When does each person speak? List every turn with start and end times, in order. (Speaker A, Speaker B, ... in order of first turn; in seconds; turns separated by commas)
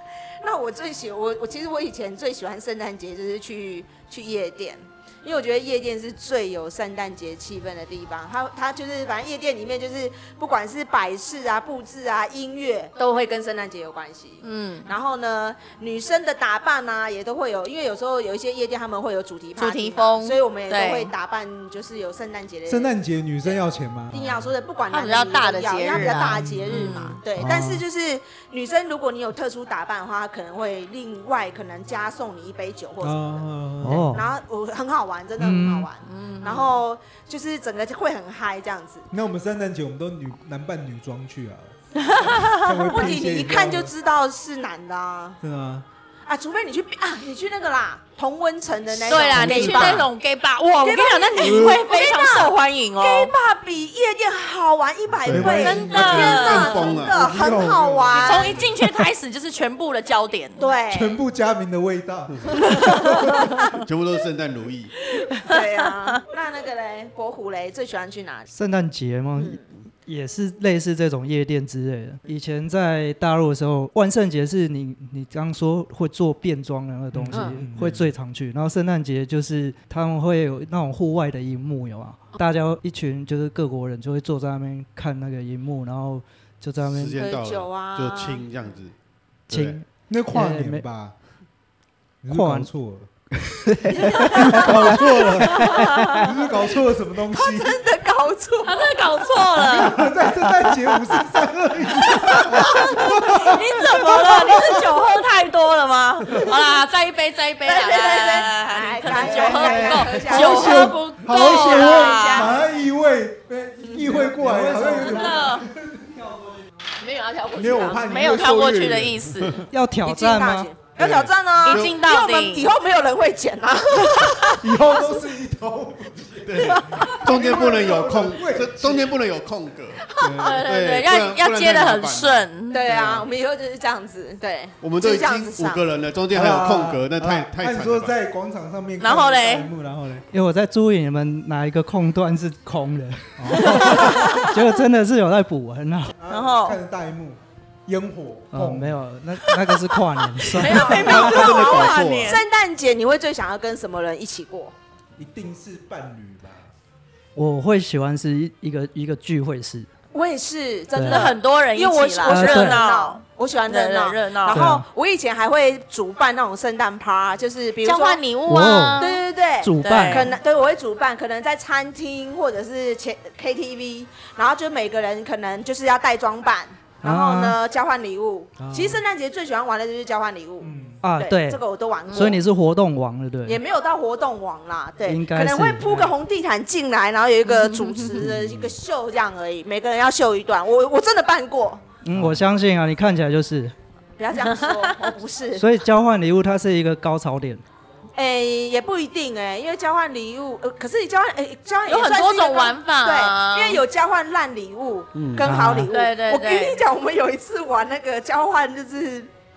Speaker A: 0.4-23.6, Speaker B: 14.4-14.9, Speaker B: 19.6-21.1, Speaker C: 22.7-24.5, Speaker A: 24.1-33.5, Speaker B: 24.9-27.2, Speaker C: 26.2-27.8, Speaker C: 33.0-34.2, Speaker D: 33.8-34.2, Speaker A: 34.0-39.0, Speaker D: 35.4-35.9, Speaker B: 36.0-36.7, Speaker C: 39.1-43.9, Speaker B: 42.0-42.9, Speaker A: 42.8-45.4, Speaker C: 45.4-45.8, Speaker A: 46.2-50.1, Speaker C: 48.9-50.1, Speaker B: 49.1-53.3, Speaker A: 50.8-58.6, Speaker C: 51.4-51.8, Speaker C: 55.2-58.8, Speaker E: 55.2-55.6, Speaker B: 55.5-56.8, Speaker E: 56.2-57.2, Speaker B: 58.1-60.7, Speaker A: 60.6-61.2, Speaker C: 60.9-63.3, Speaker A: 62.6-63.4, Speaker B: 63.2-63.6, Speaker E: 63.7-64.9, Speaker A: 65.4-68.5, Speaker D: 68.5-87.2, Speaker A: 69.4-69.6, Speaker C: 77.1-78.1, Speaker A: 77.3-77.6, Speaker E: 86.8-88.9, Speaker A: 87.2-88.4, Speaker E: 89.5-89.8, Speaker D: 89.5-90.8, Speaker C: 90.1-91.2, Speaker C: 92.2-93.1, Speaker D: 92.3-92.7, Speaker D: 93.4-96.3, Speaker A: 93.9-94.7, Speaker C: 94.3-97.8, Speaker B: 95.6-96.2, Speaker A: 97.3-99.0, Speaker B: 98.6-100.1, Speaker C: 99.6-104.8, Speaker A: 102.2-102.9, Speaker B: 102.3-112.6, Speaker A: 107.6-112.6, Speaker C: 109.1-116.4, Speaker D: 109.5-110.3, Speaker D: 114.7-115.1, Speaker A: 114.8-115.2, Speaker B: 114.9-115.6, Speaker B: 117.0-119.7, Speaker A: 117.0-118.0, Speaker C: 117.5-119.5, Speaker D: 119.7-120.7, Speaker A: 120.0-125.0, Speaker E: 121.0-122.0, Speaker B: 121.6-122.7, Speaker C: 124.6-129.2, Speaker E: 126.4-130.1, Speaker A: 126.6-127.4, Speaker A: 130.1-130.6, Speaker C: 130.2-130.6, Speaker B: 130.4-132.8, Speaker E: 130.6-132.5, Speaker A: 132.7-135.8, Speaker C: 132.9-133.2, Speaker E: 134.8-138.1, Speaker C: 136.3-140.2, Speaker B: 139.0-139.7, Speaker D: 140.3-146.1, Speaker C: 143.4-144.1, Speaker B: 143.8-144.2, Speaker C: 146.2-149.0, Speaker B: 146.3-146.8, Speaker D: 148.5-151.4, Speaker B: 150.4-152.4, Speaker A: 150.6-154.7, Speaker E: 150.9-152.4, Speaker C: 155.2-156.7, Speaker D: 157.3-159.9, Speaker A: 160.1-168.2, Speaker D: 160.9-161.3, Speaker B: 161.0-164.7, Speaker D: 162.2-162.8, Speaker D: 164.5-164.8, Speaker B: 167.8-169.2, Speaker D: 168.5-169.1, Speaker A: 169.0-182.4, Speaker D: 169.6-170.3, Speaker B: 169.8-170.3, Speaker D: 177.0-177.6, Speaker C: 178.6-179.0, Speaker C: 180.6-181.0, Speaker D: 181.0-183.6, Speaker B: 182.1-182.4, Speaker A: 183.4-191.8, Speaker D: 185.1-186.1, Speaker B: 187.6-188.1, Speaker C: 188.2-188.8, Speaker D: 192.0-193.7, Speaker C: 192.1-192.5, Speaker A: 194.2-195.7, Speaker B: 194.4-195.1, Speaker D: 195.6-197.6, Speaker A: 198.1-209.3, Speaker B: 201.9-203.8, Speaker E: 205.1-205.5, Speaker D: 205.4-205.9, Speaker B: 205.9-206.8